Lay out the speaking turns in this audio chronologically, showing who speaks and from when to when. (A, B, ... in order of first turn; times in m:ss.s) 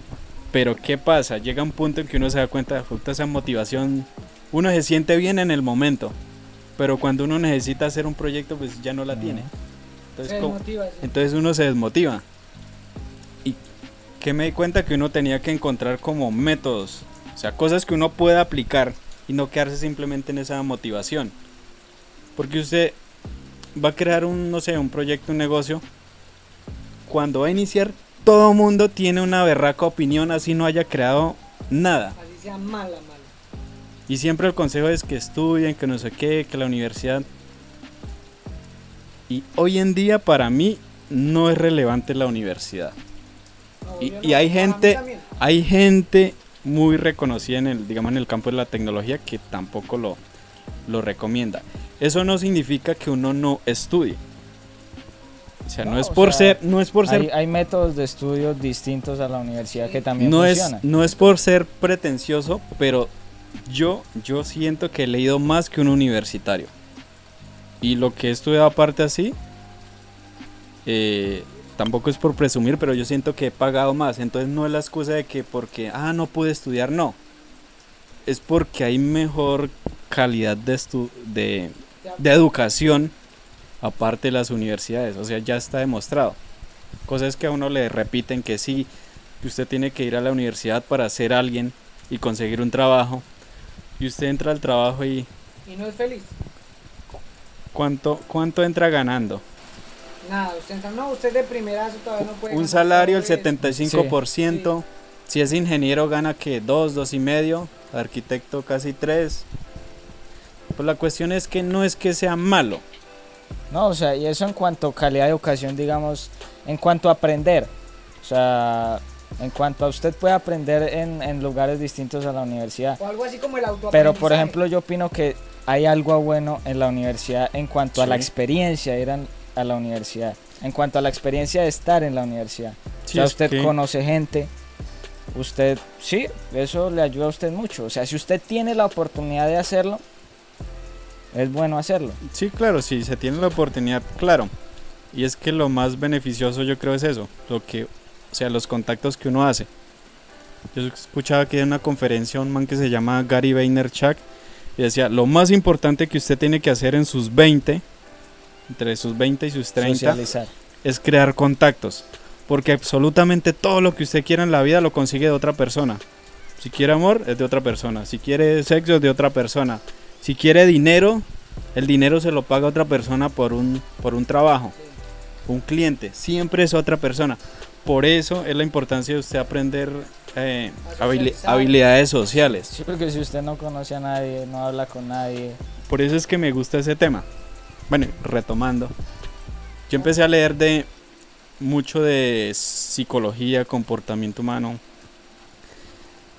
0:00.5-0:06.2 A
0:06.8-0:09.5 A
0:09.1-0:09.5 B
0:10.2-0:12.2 A
0:10.2-0:11.1 C
0:14.2-0:21.4 A
0:22.4-0:23.0 A
0:23.7-0:25.8 A
0:27.1-0:32.2 A
0:32.2-0:33.3 C
0:34.1-0:37.2 A
0:39.3-0:43.0 A
0:43.8-0:45.2 C
0:44.0-0:50.2 A
0:50.8-0:54.2 A
0:55.7-0:57.3 A
0:55.8-1:00.8 B
1:00.2-1:03.1 A
1:03.6-1:06.7 A
1:07.8-1:09.4 A
1:10.8-1:17.2 A
1:18.2-1:23.1 A
1:23.8-1:26.4 A
1:27.1-1:28.9 A
1:29.4-1:33.2 A
1:34.0-1:35.3 A
1:35.6-1:36.3 C
1:37.7-1:39.4 A
1:40.2-1:43.5 C
1:42.2-1:49.4 A
1:43.6-1:44.2 B
1:50.7-1:52.8 A
1:53.7-2:03.0 B
2:03.0-2:04.5 C
2:03.9-2:14.5 B
2:07.9-2:08.3 A
2:13.0-2:13.7 A
2:15.3-2:20.0 B
2:21.3-2:22.2 B
2:22.2-2:24.5 A
2:25.1-2:29.7 A
2:30.7-2:34.2 A
2:34.8-2:37.8 A
2:38.7-2:40.2 A
2:39.8-2:40.5 B
2:40.8-2:46.0 A
2:46.6-2:54.7 A
2:55.5-3:02.7 A
3:00.8-3:01.7 C
3:02.6-3:05.6 B
3:05.9-3:07.2 A
3:07.9-3:08.9 A
3:09.9-3:10.9 A
3:11.6-3:14.8 A